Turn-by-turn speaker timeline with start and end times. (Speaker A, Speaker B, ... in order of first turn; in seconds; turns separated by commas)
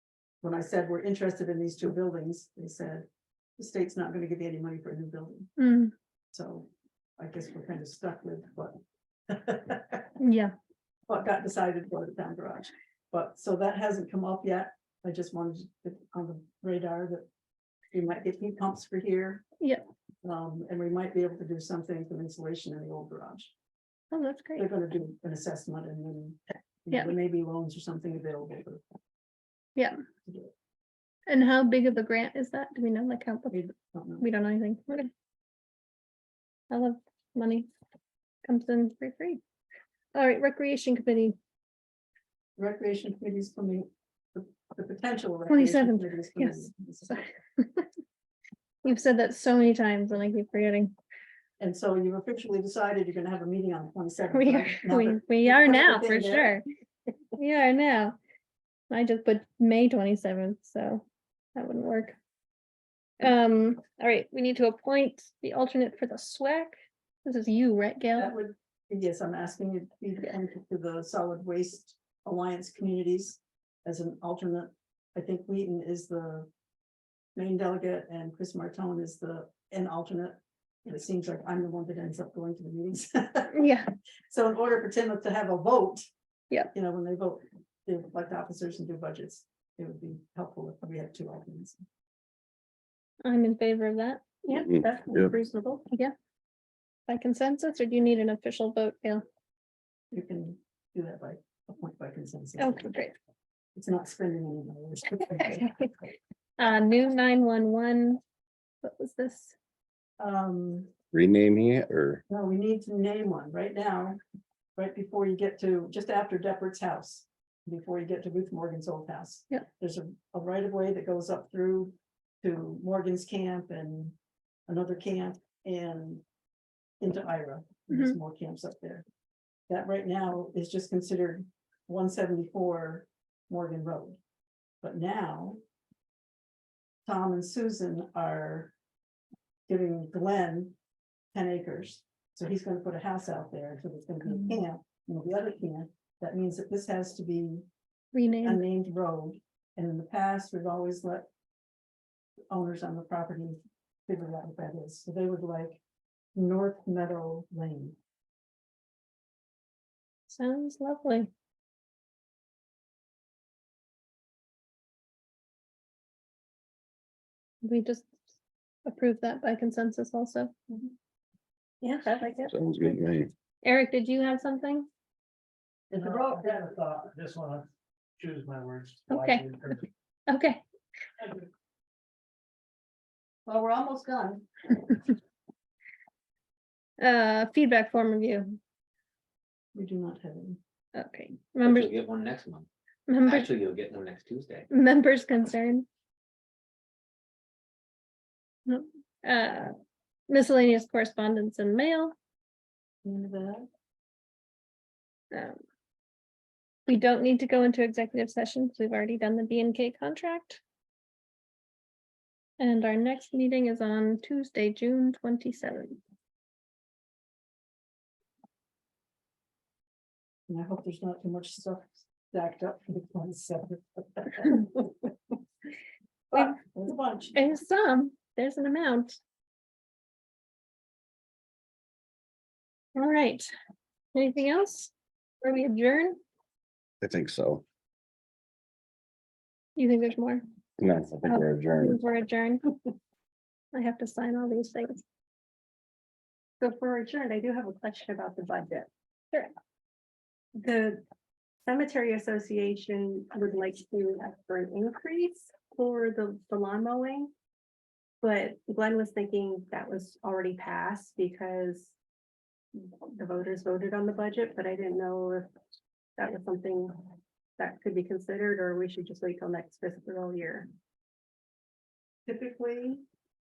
Speaker A: 0.4-3.1, Speaker A: 3.6-5.5, Speaker B: 5.6-5.9, Speaker A: 6.3-8.8, Speaker A: 9.3-10.1, Speaker B: 10.2-10.5, Speaker A: 11.1-17.2, Speaker A: 17.9-19.4, Speaker A: 20.2-23.5, Speaker B: 24.1-24.7, Speaker A: 24.6-28.8, Speaker A: 30.2-30.5, Speaker B: 31.3-33.6, Speaker A: 33.5-34.2, Speaker B: 34.2-35.1, Speaker B: 36.7-37.7, Speaker B: 38.4-39.4, Speaker B: 40.1-41.4, Speaker A: 42.6-47.2, Speaker B: 45.5-47.9, Speaker B: 48.8-50.9, Speaker A: 51.6-56.5, Speaker B: 54.3-56.6, Speaker B: 57.4-58.2, Speaker B: 58.9-62.1, Speaker B: 63.2-68.3, Speaker A: 68.2-76.5, Speaker A: 77.3-83.6, Speaker B: 83.5-83.9, Speaker A: 84.3-86.0, Speaker A: 86.7-91.8, Speaker B: 93.2-94.3, Speaker C: 94.4-95.9, Speaker D: 94.5-95.3, Speaker B: 97.1-99.2, Speaker A: 100.1-102.9, Speaker B: 102.6-103.1, Speaker A: 103.8-105.7, Speaker B: 105.4-105.9, Speaker B: 106.6-108.2, Speaker B: 108.8-109.5, Speaker A: 110.2-110.9, Speaker D: 111.1-112.2, Speaker A: 112.3-114.2, Speaker A: 114.8-124.1, Speaker A: 124.7-126.2, Speaker A: 127.0-129.0, Speaker B: 127.9-128.2, Speaker A: 129.7-134.2, Speaker A: 134.8-135.6, Speaker A: 137.1-138.7, Speaker A: 139.7-140.7, Speaker A: 141.3-147.6, Speaker B: 148.1-148.6, Speaker A: 148.4-151.2, Speaker A: 152.5-155.8, Speaker A: 156.3-158.0, Speaker B: 160.3-161.3, Speaker B: 167.6-168.1, Speaker B: 168.8-170.5, Speaker C: 171.8-172.5, Speaker D: 172.5-173.3, Speaker B: 173.6-174.9, Speaker A: 175.9-176.6, Speaker E: 176.0-179.9, Speaker B: 179.1-179.4, Speaker B: 180.3-180.6, Speaker A: 183.4-184.5, Speaker B: 187.0-188.6, Speaker A: 189.7-190.6, Speaker B: 190.9-191.9, Speaker F: 191.6-192.7, Speaker B: 193.1-193.5, Speaker F: 193.3-194.7, Speaker B: 194.7-195.9, Speaker B: 198.7-199.7, Speaker B: 200.3-202.1, Speaker A: 203.0-203.7, Speaker B: 205.3-205.6, Speaker B: 206.9-210.6, Speaker B: 212.6-216.0, Speaker A: 220.5-224.9, Speaker A: 226.3-227.4, Speaker B: 227.3-229.2, Speaker B: 232.9-233.5, Speaker B: 234.1-234.9, Speaker B: 235.4-236.2, Speaker D: 237.0-237.6, Speaker B: 239.8-240.4, Speaker D: 240.8-242.0, Speaker B: 241.2-242.7, Speaker B: 243.7-245.0, Speaker C: 246.6-248.9, Speaker C: 250.6-251.0, Speaker C: 251.6-257.3, Speaker C: 258.2-261.9, Speaker C: 262.7-265.5, Speaker C: 266.2-267.0, Speaker C: 267.6-270.7, Speaker A: 272.2-273.0